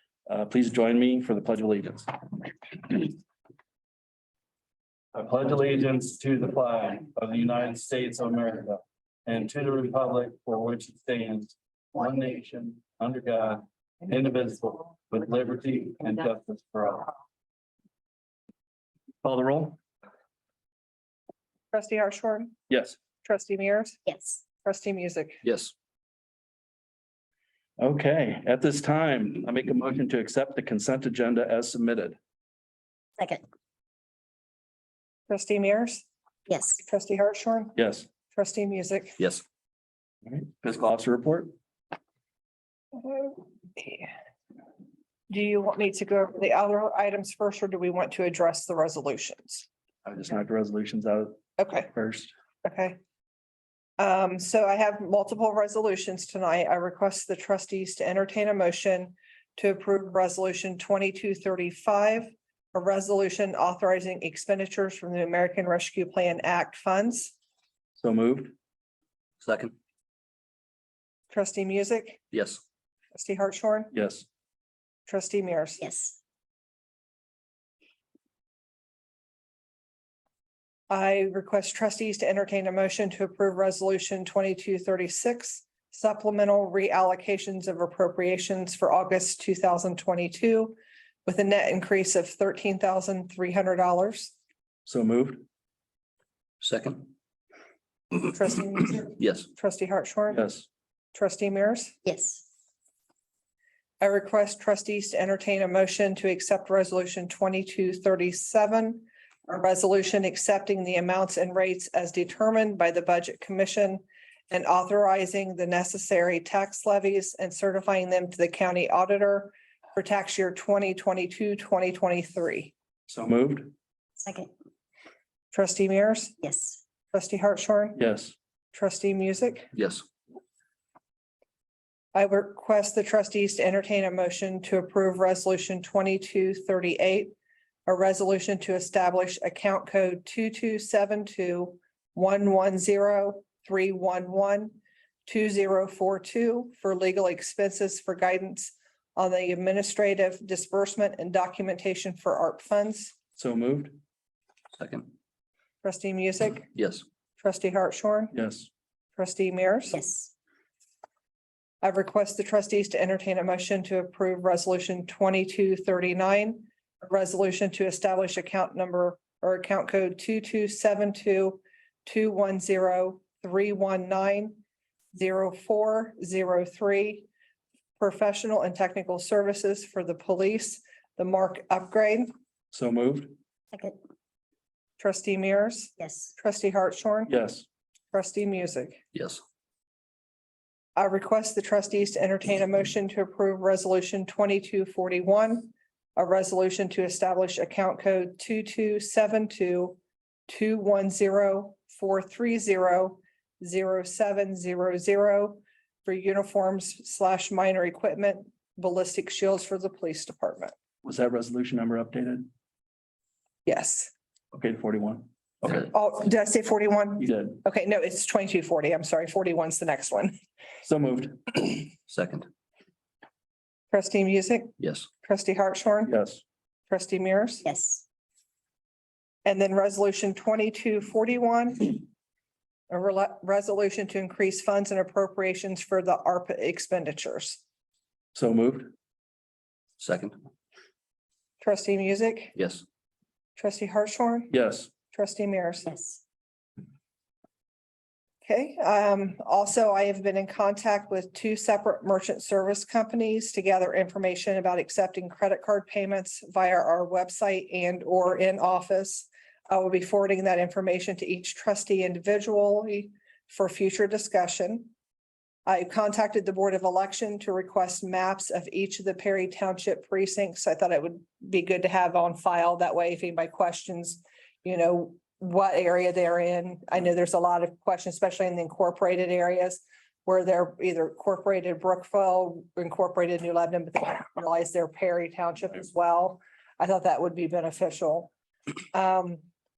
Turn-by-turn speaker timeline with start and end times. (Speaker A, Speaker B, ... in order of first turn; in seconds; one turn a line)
Speaker A: 0.3-3.1
Speaker A: 5.1-17.1
Speaker A: 19.2-19.8
Speaker B: 21.7-22.6
Speaker A: 22.7-23.0
Speaker B: 23.2-24.0
Speaker C: 24.1-24.4
Speaker B: 24.5-25.4
Speaker D: 25.4-25.7
Speaker A: 27.8-32.2
Speaker C: 33.2-33.4
Speaker B: 35.3-36.1
Speaker C: 36.5-36.8
Speaker B: 36.8-37.8
Speaker A: 37.8-38.1
Speaker B: 38.3-39.2
Speaker A: 40.3-41.5
Speaker B: 43.0-44.1
Speaker B: 45.3-49.7
Speaker A: 50.1-51.4
Speaker B: 51.6-51.9
Speaker A: 51.9-52.3
Speaker B: 52.6-53.0
Speaker B: 54.0-67.3
Speaker A: 68.0-68.5
Speaker D: 69.4-69.7
Speaker B: 71.3-72.2
Speaker D: 72.3-72.6
Speaker B: 73.1-73.9
Speaker A: 73.9-74.2
Speaker B: 75.1-75.8
Speaker C: 75.8-76.2
Speaker B: 80.9-94.3
Speaker A: 94.9-95.5
Speaker D: 96.6-97.1
Speaker B: 98.2-100.5
Speaker D: 99.2-99.5
Speaker A: 100.3-100.7
Speaker B: 101.1-102.0
Speaker C: 102.0-102.4
Speaker B: 104.0-122.7
Speaker A: 123.1-123.7
Speaker C: 124.2-124.5
Speaker B: 125.5-126.4
Speaker C: 126.4-126.8
Speaker B: 127.1-128.0
Speaker A: 128.0-128.3
Speaker B: 128.7-129.7
Speaker D: 129.7-130.0
Speaker B: 132.1-137.3
Speaker B: 137.9-153.1
Speaker A: 153.4-154.0
Speaker D: 154.7-155.1
Speaker B: 155.8-156.8
Speaker D: 156.8-157.0
Speaker B: 157.4-158.4
Speaker A: 158.3-158.7
Speaker B: 159.2-160.0
Speaker C: 159.9-160.3
Speaker B: 161.8-174.6
Speaker B: 175.1-177.3
Speaker B: 178.0-182.3
Speaker A: 182.7-183.3
Speaker B: 185.0-187.3
Speaker C: 186.0-186.3
Speaker A: 187.3-187.7
Speaker B: 188.1-189.0
Speaker D: 189.1-189.4
Speaker B: 191.0-210.7
Speaker A: 211.0-212.5
Speaker B: 213.7-214.1
Speaker A: 214.5-215.8
Speaker B: 215.8-220.3
Speaker A: 217.2-217.6
Speaker A: 220.8-221.7
Speaker D: 222.1-222.5
Speaker B: 223.9-226.2
Speaker D: 224.8-225.1
Speaker A: 226.1-226.4
Speaker B: 226.9-227.7
Speaker C: 227.6-228.0
Speaker B: 229.4-232.1
Speaker B: 232.9-237.6
Speaker A: 238.3-238.9
Speaker D: 240.0-240.4
Speaker B: 241.6-242.6
Speaker D: 242.6-242.8
Speaker B: 243.6-244.6
Speaker A: 244.5-244.9
Speaker B: 245.1-245.9
Speaker C: 245.9-246.2
Speaker B: 248.4-264.9
Speaker B: 265.7-288.3
Speaker B: 288.9-289.4